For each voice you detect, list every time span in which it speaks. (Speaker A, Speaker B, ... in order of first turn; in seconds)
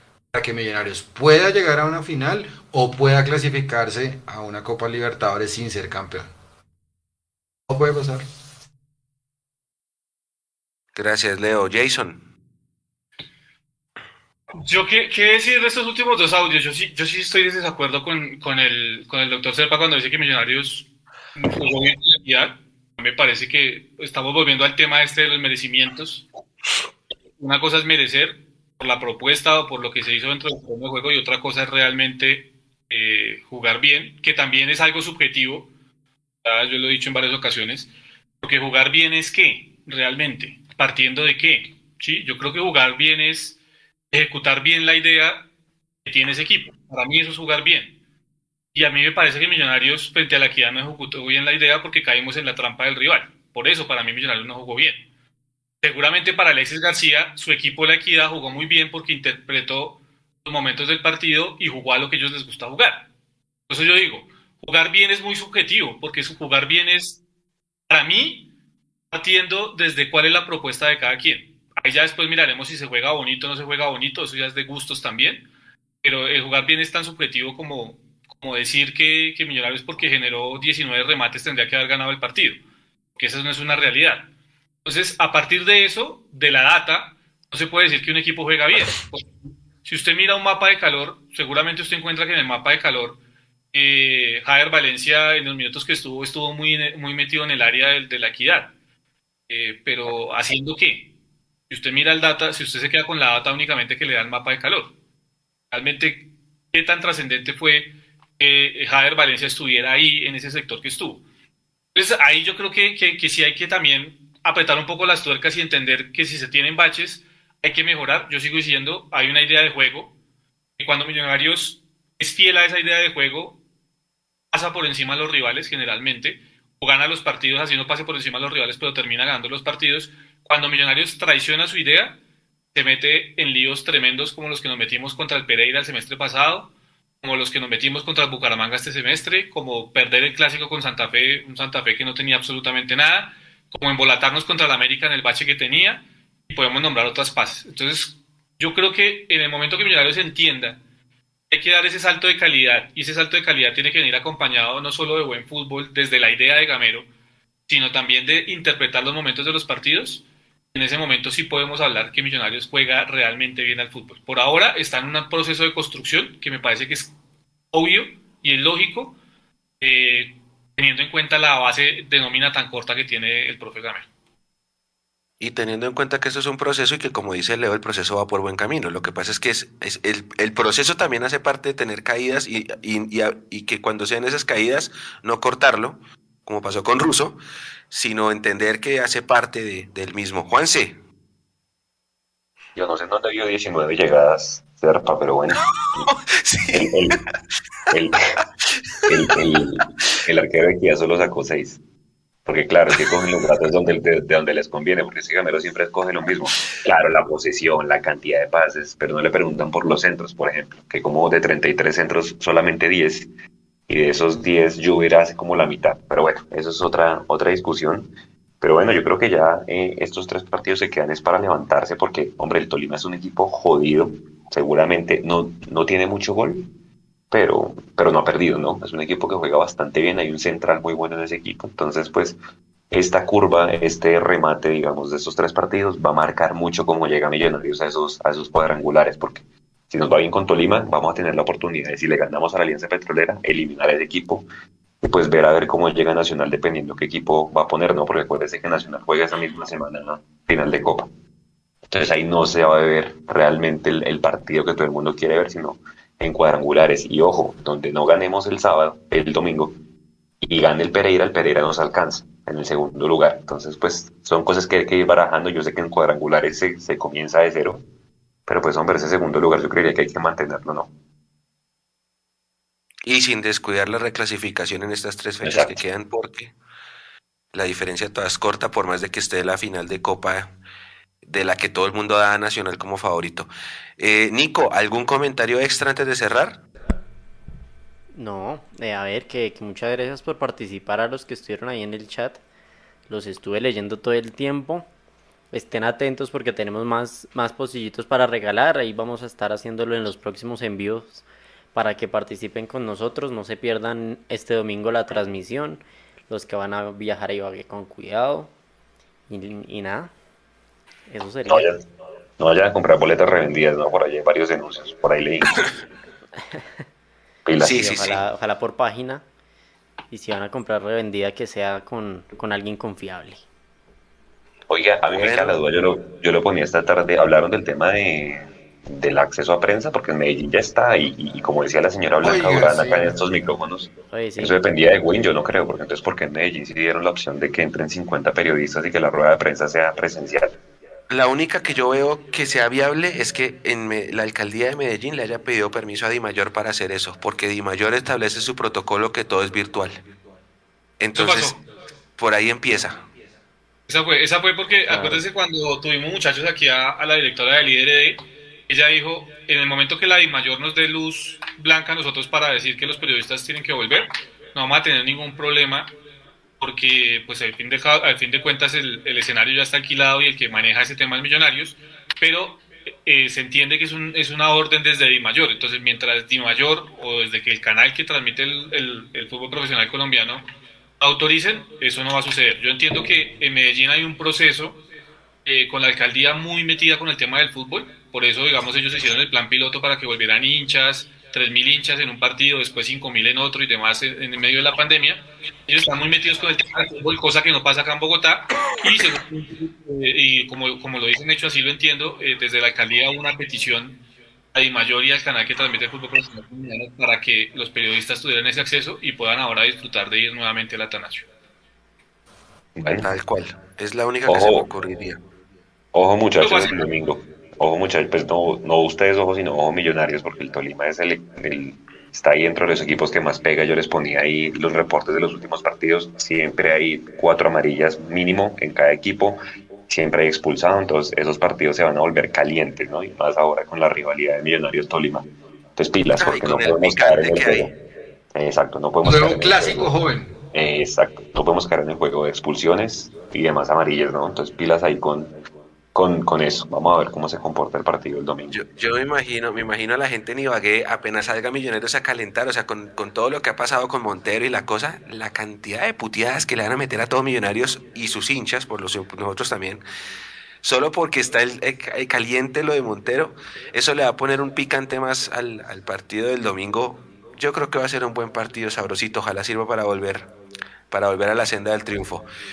Speaker A: 0.3-6.3, 7.7-8.2, 332.2-333.2, 439.0-440.4
Speaker B: 10.9-12.2, 175.4-187.4, 187.9-191.0, 195.7-197.2, 199.1-199.5, 202.9-203.2, 273.1-276.5, 277.5-280.5, 281.2-286.6, 317.6-318.2, 325.1-325.6, 341.1-350.0, 351.0-351.6, 352.2-353.0, 412.9-415.2, 436.2-437.7, 448.5-459.8, 460.6-470.3, 470.9-472.2
Speaker C: 14.5-26.3, 27.4-35.7, 36.4-37.9, 38.4-43.6, 44.1-45.4, 46.0-47.9, 48.7-55.0, 55.8-63.0, 63.7-67.2, 67.9-68.5, 69.1-75.4, 76.0-82.6, 83.2-84.3, 84.8-93.2, 93.7-98.7, 99.5-101.1, 101.7-104.9, 105.7-111.2, 112.0-120.1, 120.8-123.6, 124.5-132.2, 132.7-136.7, 137.2-150.8, 151.5-157.1, 157.7-167.1, 167.7-169.2, 169.8-174.1, 351.1-351.6, 353.9-365.9, 366.6-380.5, 381.0-384.8, 385.4-404.0, 404.5-411.3, 416.4-416.9
Speaker D: 192.8-196.1, 196.7-197.2, 197.9-198.2, 199.1-201.8, 202.5-213.3, 213.9-226.7, 227.3-232.4, 232.9-244.5, 245.0-251.1, 251.9-259.8, 260.4-267.9, 268.5-270.9, 275.4-275.8, 311.5-311.8, 312.4-315.6, 317.5-317.9, 324.7-340.6, 412.8-413.1, 414.3-414.7, 415.9-437.8, 438.3-440.0, 440.5-445.4, 445.9-448.6
Speaker E: 288.1-292.4, 293.1-294.9, 295.5-308.5, 309.3-310.1, 311.1-311.7, 317.6-319.2, 320.1-323.4, 334.1-334.6, 354.9-355.2